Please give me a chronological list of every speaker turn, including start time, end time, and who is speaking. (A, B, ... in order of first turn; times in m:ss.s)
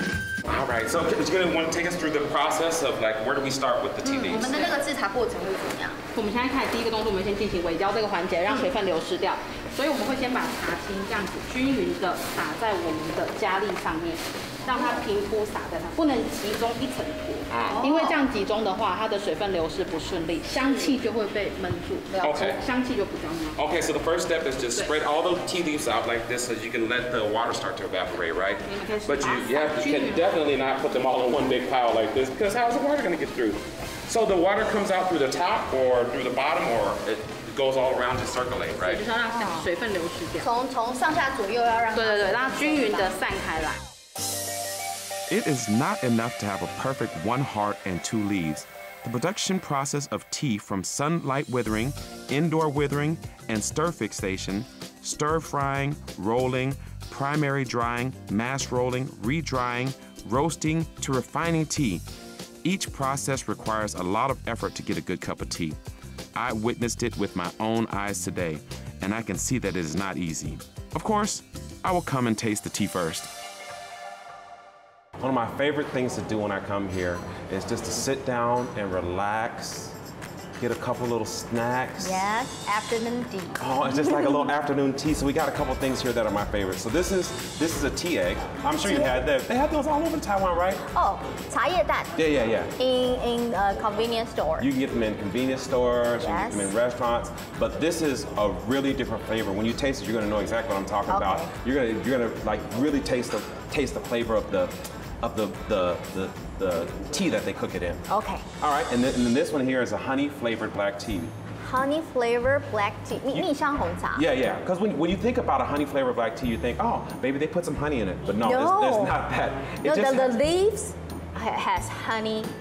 0:00.4-0:04.8 A
0:04.0-0:06.0 B
0:06.1-0:23.6 C
0:17.5-0:17.8 A
0:17.7-0:18.2 B
0:20.6-0:20.9 B
0:22.2-0:22.6 A
0:23.6-0:39.0 A
0:28.7-0:30.3 C
0:38.8-0:40.5 C
0:39.3-0:39.6 B
0:40.4-0:43.2 B
0:41.9-0:43.8 C
0:45.3-1:02.0 A
1:02.6-1:05.8 A
1:06.4-1:13.3 A
1:15.2-1:20.0 A
1:20.6-1:22.3 A
1:22.0-1:24.5 B
1:23.6-1:30.8 A
1:28.8-1:29.2 B
1:30.9-1:32.1 B
1:32.1-1:32.8 A
1:32.8-1:34.7 B
1:34.6-1:48.0 A
1:36.2-1:36.7 B
1:41.1-1:41.5 B
1:48.1-1:48.5 B
1:48.6-1:51.4 A
1:51.6-1:54.2 B
1:54.1-2:00.4 A
1:58.4-1:59.1 B
1:59.8-2:02.5 B